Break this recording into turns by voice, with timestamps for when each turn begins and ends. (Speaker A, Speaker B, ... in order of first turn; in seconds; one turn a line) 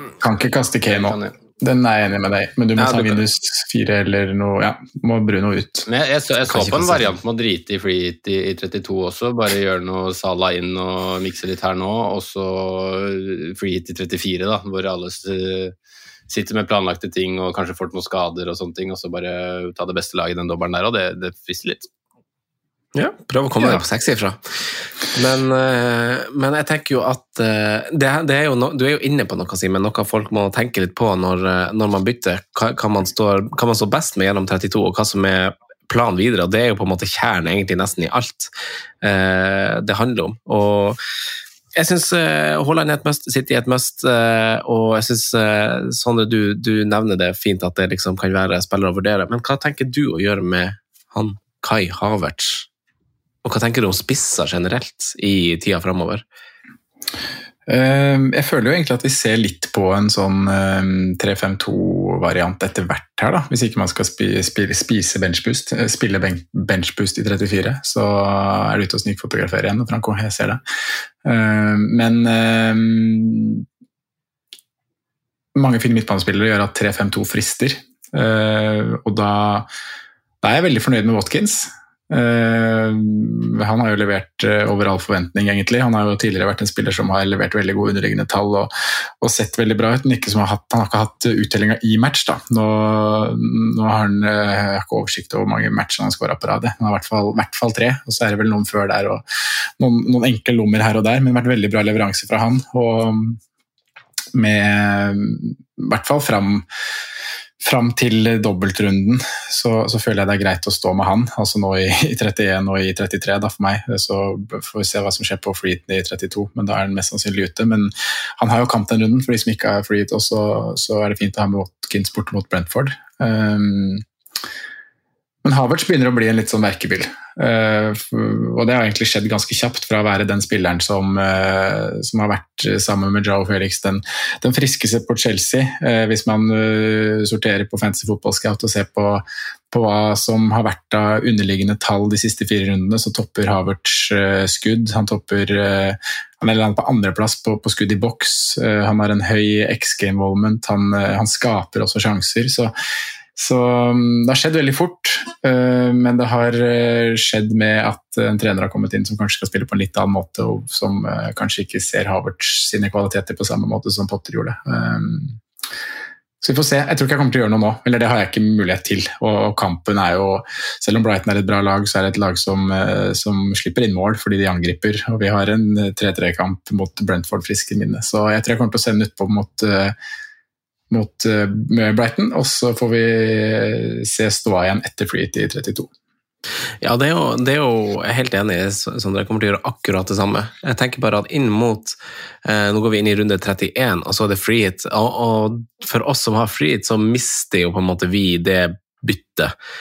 Speaker A: 0.2-5.9
Speaker B: 0.9-1.3
Speaker C: 2.8-3.2
Speaker B: 5.9-15.7
Speaker C: 6.5-7.1
Speaker B: 16.3-21.9
Speaker C: 22.9-38.5
Speaker C: 39.0-41.0
Speaker C: 41.8-52.7
Speaker C: 53.4-56.2
Speaker A: 57.7-70.6
Speaker A: 71.2-73.7
Speaker A: 75.5-79.7
Speaker A: 80.4-99.2
Speaker A: 99.8-103.4
Speaker A: 104.3-106.7
Speaker A: 107.6-124.0
Speaker A: 125.4-152.7
Speaker A: 153.4-165.4
Speaker A: 166.4-179.9
Speaker A: 180.9-185.9
Speaker C: 186.8-199.5